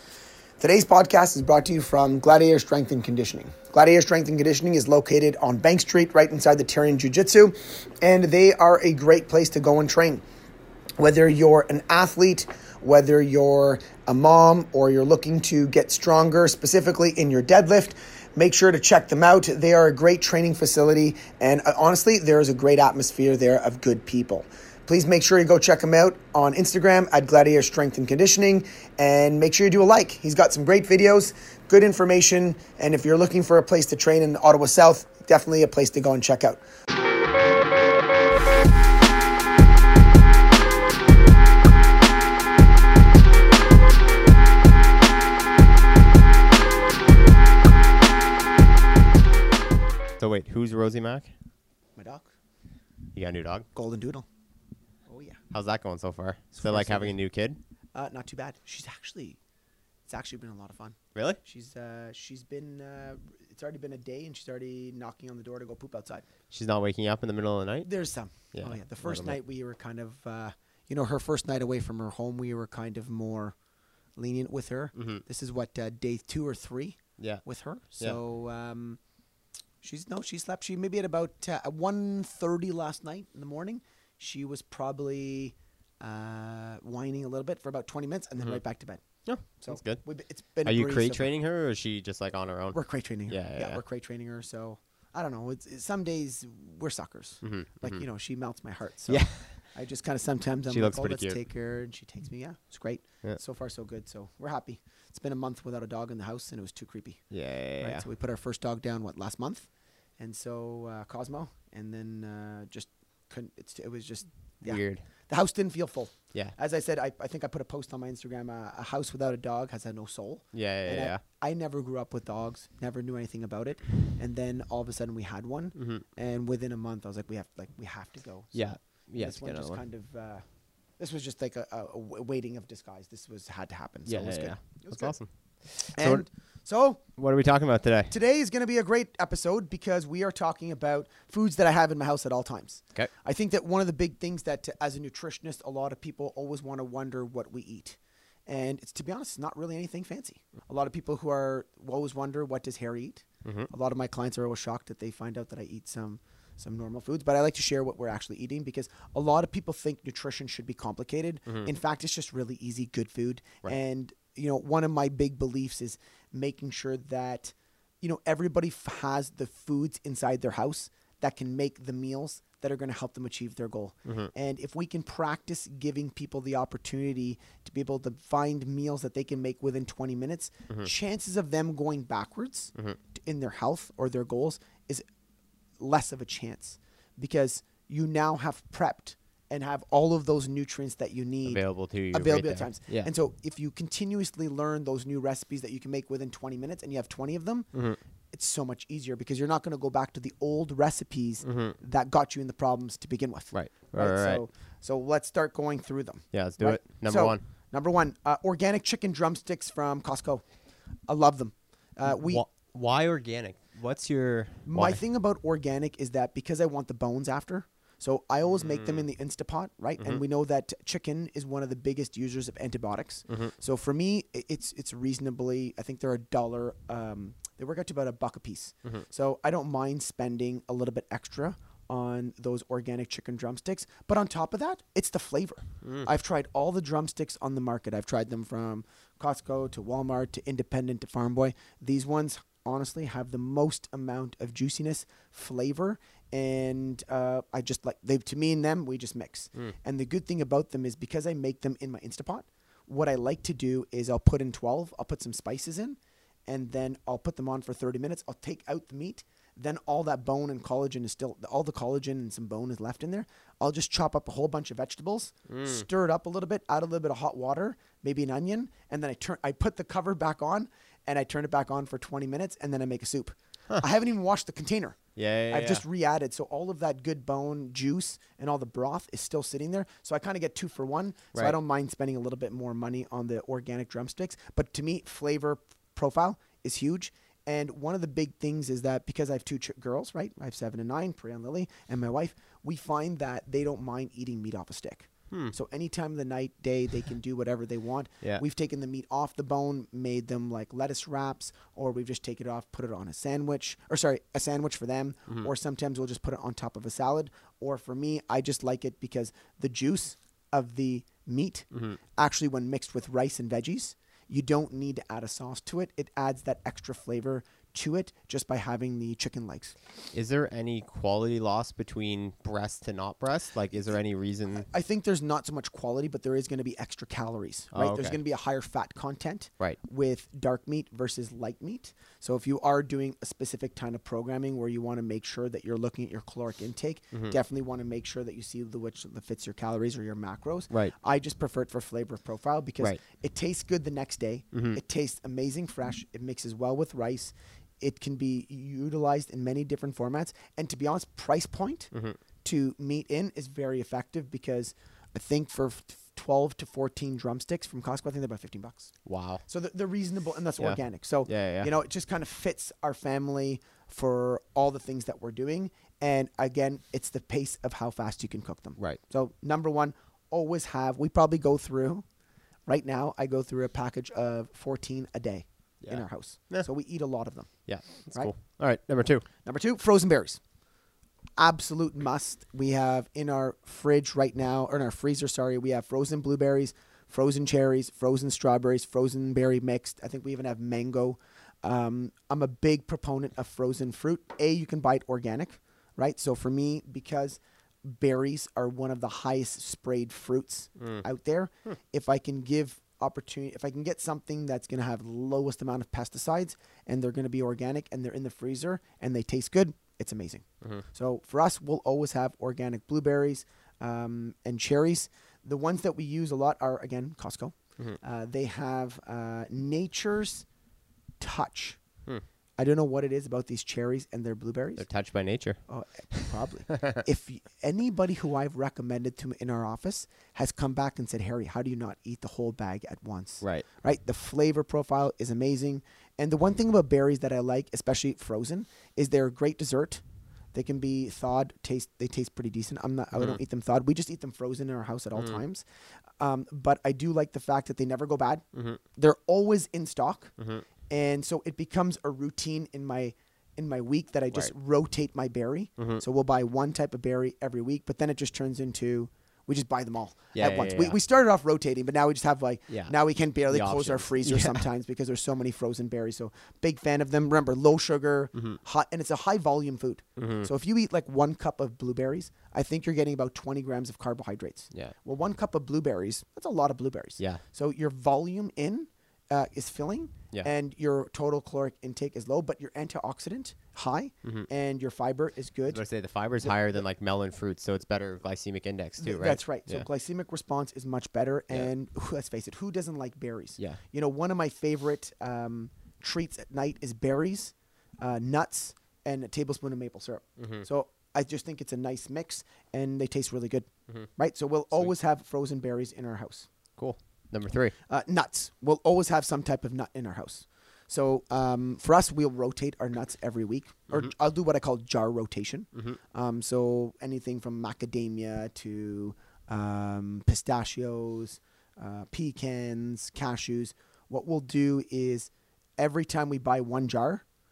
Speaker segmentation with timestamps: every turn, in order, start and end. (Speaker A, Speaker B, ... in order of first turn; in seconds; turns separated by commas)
Speaker A: 0.6-10.2, Speaker A: 11.0-36.6, Speaker B: 50.2-51.3, Speaker A: 52.0-52.3, Speaker B: 53.1-53.7, Speaker A: 53.7-54.2, Speaker A: 55.1-55.4, Speaker B: 55.5-57.6, Speaker A: 56.5-57.1, Speaker A: 57.9-59.4, Speaker A: 60.1-66.3, Speaker B: 61.1-61.4, Speaker B: 66.5-67.9, Speaker A: 67.8-73.5, Speaker B: 68.5-69.4, Speaker A: 74.2-79.0, Speaker B: 74.9-75.2, Speaker B: 77.2-77.4, Speaker A: 79.8-91.3, Speaker B: 89.2-90.0, Speaker B: 90.6-93.8, Speaker A: 92.7-137.0, Speaker B: 97.4-98.0, Speaker B: 99.1-99.7, Speaker B: 100.7-101.4, Speaker B: 107.3-108.0, Speaker B: 114.6-115.0, Speaker B: 120.5-121.2, Speaker B: 125.8-126.0, Speaker B: 128.5-129.8, Speaker B: 134.1-136.2, Speaker B: 137.1-138.1, Speaker A: 138.1-185.1, Speaker B: 153.4-153.7, Speaker B: 174.0-174.3, Speaker A: 185.8-197.7, Speaker B: 191.4-193.1, Speaker B: 197.7-198.0, Speaker A: 198.3-210.5, Speaker B: 201.4-201.8, Speaker B: 203.5-204.4, Speaker B: 206.3-207.4, Speaker A: 211.1-212.4, Speaker B: 212.0-215.0, Speaker A: 214.6-275.0, Speaker B: 218.4-219.1, Speaker B: 223.3-223.5, Speaker B: 235.8-236.1, Speaker B: 265.5-265.9, Speaker B: 275.1-275.8, Speaker A: 275.5-319.8, Speaker B: 311.7-312.0, Speaker B: 320.1-324.7, Speaker A: 324.5-351.9, Speaker B: 327.7-328.2, Speaker B: 344.5-344.8, Speaker B: 351.9-352.2, Speaker A: 352.4-358.9, Speaker B: 359.1-359.4, Speaker A: 359.4-372.0, Speaker B: 360.6-361.7, Speaker A: 372.7-378.3, Speaker B: 375.8-376.7, Speaker B: 377.6-379.2, Speaker A: 379.4-380.4, Speaker A: 381.4-420.4, Speaker B: 400.8-401.0, Speaker A: 421.2-421.8, Speaker A: 422.6-424.9, Speaker B: 424.8-427.0, Speaker A: 425.7-440.0, Speaker A: 440.5-445.6, Speaker B: 443.1-443.4, Speaker B: 445.1-445.4, Speaker A: 446.2-450.3, Speaker B: 448.5-448.8, Speaker B: 450.4-450.6, Speaker A: 450.9-485.8, Speaker B: 460.3-461.0, Speaker B: 462.7-462.9, Speaker B: 463.5-464.6, Speaker B: 468.3-468.6, Speaker B: 470.2-470.5, Speaker B: 485.7-489.9, Speaker A: 489.0-506.5, Speaker B: 500.4-500.6, Speaker B: 506.8-507.7, Speaker A: 507.9-527.2